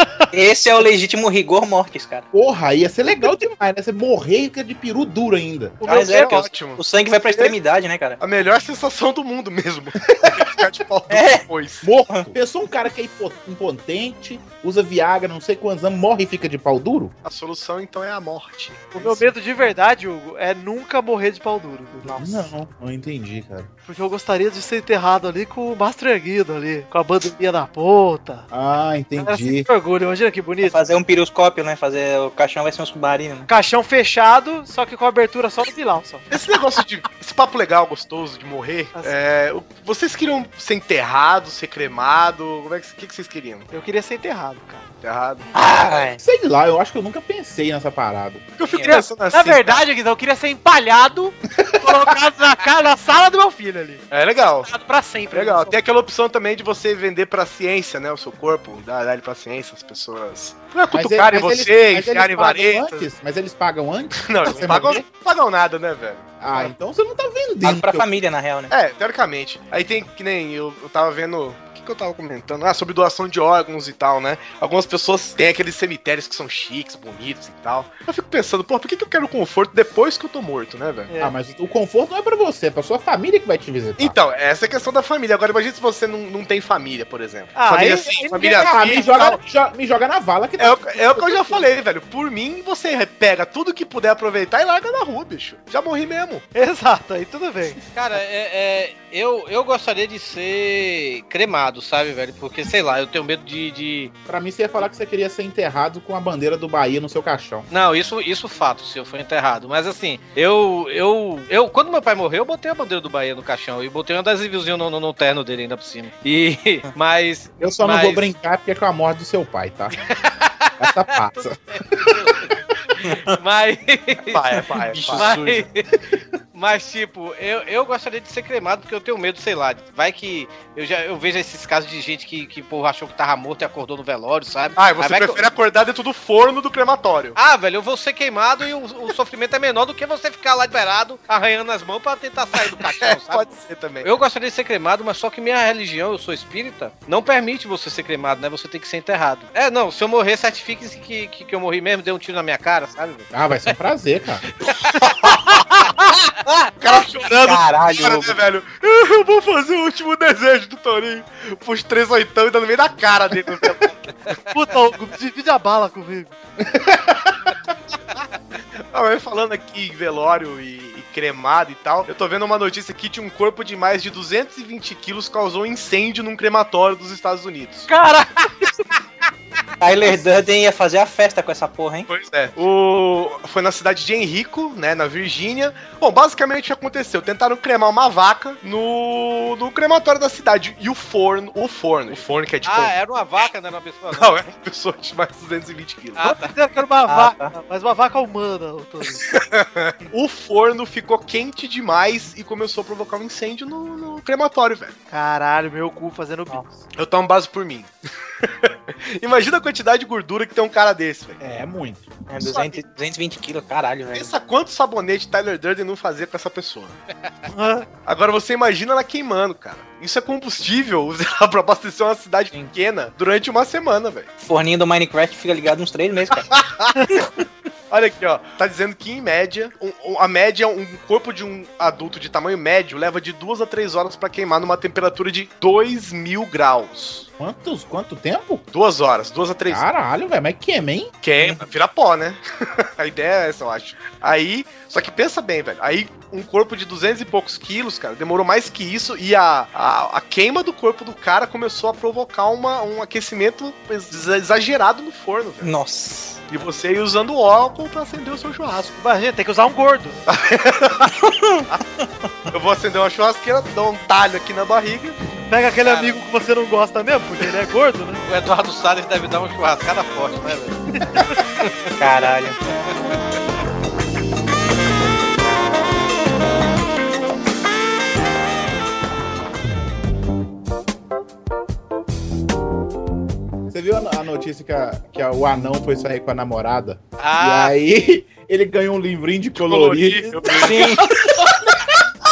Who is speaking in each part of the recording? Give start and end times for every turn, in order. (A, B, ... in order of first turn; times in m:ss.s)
0:00.3-0:02.3 A
0:02.3-0:05.8 B
0:05.8-0:07.6 C
0:05.8-0:08.2 A
0:08.2-0:11.9 C
0:11.1-0:11.5 A
0:11.8-0:17.1 B
0:12.1-0:12.3 A
0:17.2-0:19.2 C
0:18.9-0:22.2 D
0:22.0-0:22.5 A
0:22.2-0:23.7 B
0:23.9-0:28.5 D
0:28.5-0:29.7 B
0:29.2-0:30.8 D
0:30.6-0:33.5 A
0:33.5-0:36.4 D
0:36.3-0:43.7 C
0:43.7-0:44.9 D
0:45.0-0:45.5 C
0:45.5-0:46.2 A
0:46.2-0:48.5 B
0:48.6-0:49.8 C
0:48.7-0:49.0 A
0:48.9-0:54.0 D
0:54.1-0:54.7 C
0:54.6-0:55.8 D
0:55.3-1:03.0 C
1:00.9-1:05.0 B
1:04.1-1:06.7 C
1:06.4-1:08.1 B
1:07.6-1:08.7 A
1:08.7-1:21.1 C
1:21.1-1:21.3 D
1:21.2-1:24.2 B
1:24.0-1:29.4 C
1:27.5-1:28.5 D
1:28.4-1:31.7 B
1:30.6-1:36.4 C
1:36.5-1:37.8 D
1:37.9-1:44.1 E
1:44.3-1:47.7 B
1:47.7-1:58.3 E
1:57.6-2:00.0 B
2:00.0-2:01.0 E
2:00.8-2:02.3 B
2:01.9-2:02.5 E
2:03.1-2:05.9 E
2:04.3-2:05.6 C
2:04.9-2:05.4 A
2:06.5-2:15.4 E
2:14.8-2:17.4 C
2:17.4-2:23.5 E
2:22.8-2:24.1 C
2:24.0-2:33.3 E
2:33.3-2:34.4 B
2:36.8-2:44.3 C
2:36.8-2:38.4 A
2:44.5-2:46.3 D
2:48.9-2:57.9 C
2:57.9-2:58.4 D
2:59.8-3:02.1 A
3:02.1-3:12.9 C
3:12.6-3:14.4 E
3:14.1-3:16.3 C
3:16.2-3:16.5 E
3:16.2-3:19.3 D
3:17.1-3:17.5 A
3:19.2-3:24.9 C
3:25.1-3:26.7 D
3:26.9-3:27.9 C
3:28.4-3:31.4 C
3:31.4-3:32.1 B
3:32.3-3:34.3 A
3:32.4-3:32.7 C
3:34.1-3:37.0 C
3:37.5-3:37.9 D
3:38.0-3:44.3 C
3:44.4-3:46.5 A
3:46.3-3:47.2 C
3:47.9-3:57.3 C
3:57.4-3:58.6 B
3:58.7-3:59.8 C
3:59.7-4:01.1 B
4:01.2-4:15.7 C
4:01.4-4:01.7 A
4:15.6-4:16.4 A
4:16.5-4:19.0 C
4:19.0-4:20.2 D
4:20.3-4:21.1 C
4:22.5-4:25.2 C
4:25.5-4:28.2 D
4:25.8-4:26.2 E
4:28.2-4:30.8 E
4:31.0-4:31.2 D
4:32.0-4:32.6 A
4:43.7-4:50.6 B
4:47.2-4:47.7 E
4:49.6-4:50.9 C
4:50.5-4:51.1 A